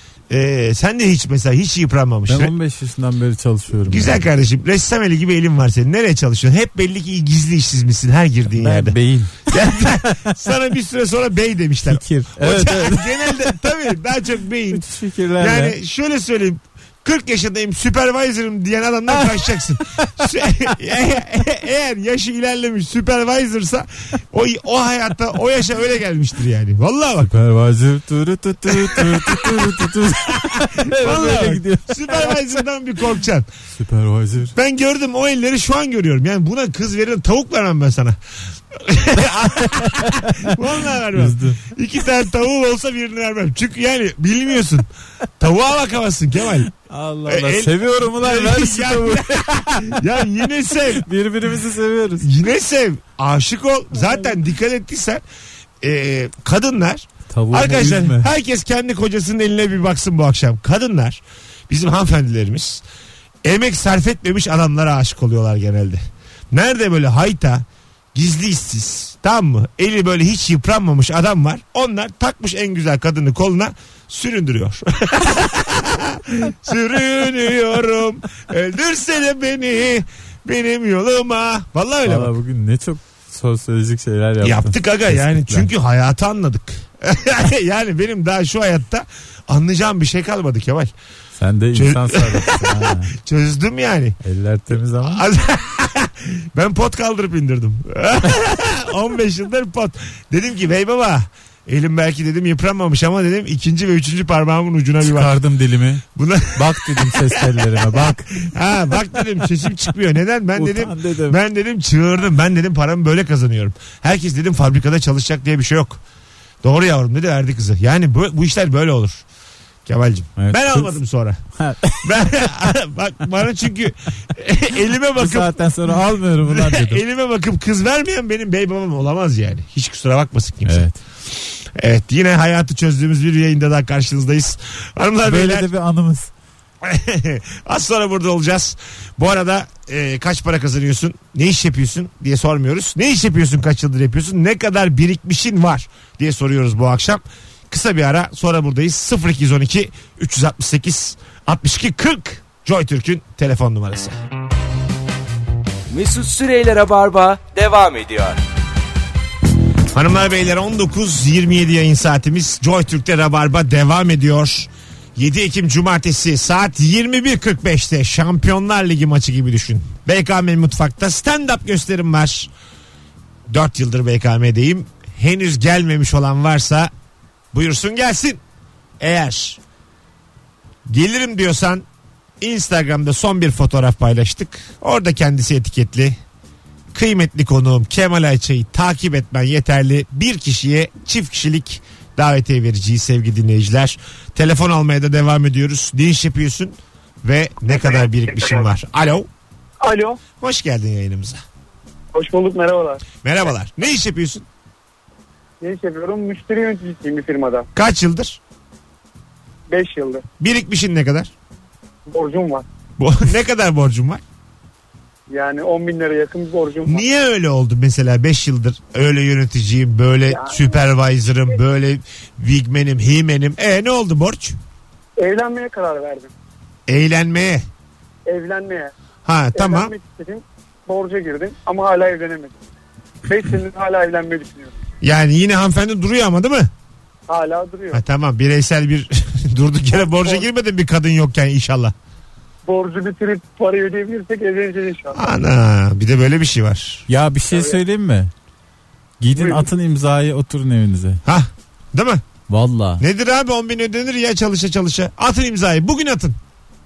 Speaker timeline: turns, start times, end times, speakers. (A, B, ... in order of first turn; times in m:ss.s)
0:00.3-0:02.5 A
0:02.3-0:04.2 B
0:03.9-0:09.0 A
0:08.6-0:10.3 B
0:09.5-0:14.8 A
0:11.9-0:13.6 B
0:14.7-0:15.8 B
0:15.4-0:27.3 A
0:19.1-0:20.3 B
0:27.3-0:32.6 B
0:28.7-0:29.8 A
0:30.4-0:33.5 A
0:33.8-0:34.6 B
0:34.6-0:38.2 A
0:38.7-0:44.9 A
0:39.6-0:41.7 B
0:45.4-0:46.7 A
0:46.8-0:50.0 B
0:47.3-0:51.1 A
0:51.0-0:52.3 B
0:52.2-0:55.2 A
0:55.8-1:02.8 A
0:57.3-0:58.3 B
1:03.4-1:22.3 A
1:22.0-1:25.7 B
1:24.4-1:30.9 A
1:31.4-1:33.1 B
1:31.7-1:34.2 A
1:34.2-1:35.2 B
1:35.0-1:45.4 A
1:45.0-1:48.9 B
1:46.2-1:56.0 A
1:50.6-1:51.4 B
1:56.6-1:59.2 A
1:59.9-2:01.4 A
2:00.4-2:01.0 B
2:01.6-2:02.3 B
2:02.0-2:05.6 A
2:05.2-2:07.0 B
2:06.4-2:10.9 A
2:10.6-2:11.0 B
2:11.8-2:15.7 A
2:15.2-2:16.3 B
2:16.8-2:34.1 A
2:35.9-2:38.4 C
2:39.9-2:52.5 A
2:53.5-2:56.9 A
2:57.5-2:58.4 A
2:59.0-2:59.6 A
3:00.9-3:01.8 A
3:02.4-3:06.2 A
3:06.9-3:19.3 A
3:18.3-3:18.6 D
3:19.8-3:20.2 D
3:20.4-3:21.4 A
3:22.1-3:23.0 D
3:23.2-3:24.4 A
3:25.6-3:27.7 D
3:27.8-3:28.4 A
3:29.7-3:30.2 D
3:30.4-3:31.3 A
3:32.1-3:32.7 D
3:33.0-3:34.2 A
3:35.3-3:37.1 D
3:36.8-3:44.6 A
3:40.3-3:40.8 D
3:45.2-3:46.3 D
3:46.9-3:47.6 A
3:48.3-3:48.9 D
3:49.3-3:49.9 A
3:49.5-3:52.6 D
3:53.3-3:54.8 D
3:55.0-3:56.7 A
3:57.3-3:58.0 D
3:57.9-4:01.9 A
4:00.0-4:00.4 D
4:02.7-4:05.2 D
4:05.1-4:07.1 A
4:07.1-4:08.3 B
4:07.5-4:07.8 D
4:09.2-4:11.2 B
4:09.4-4:09.7 D
4:11.2-4:12.2 A
4:12.5-4:13.0 B
4:13.0-4:16.4 A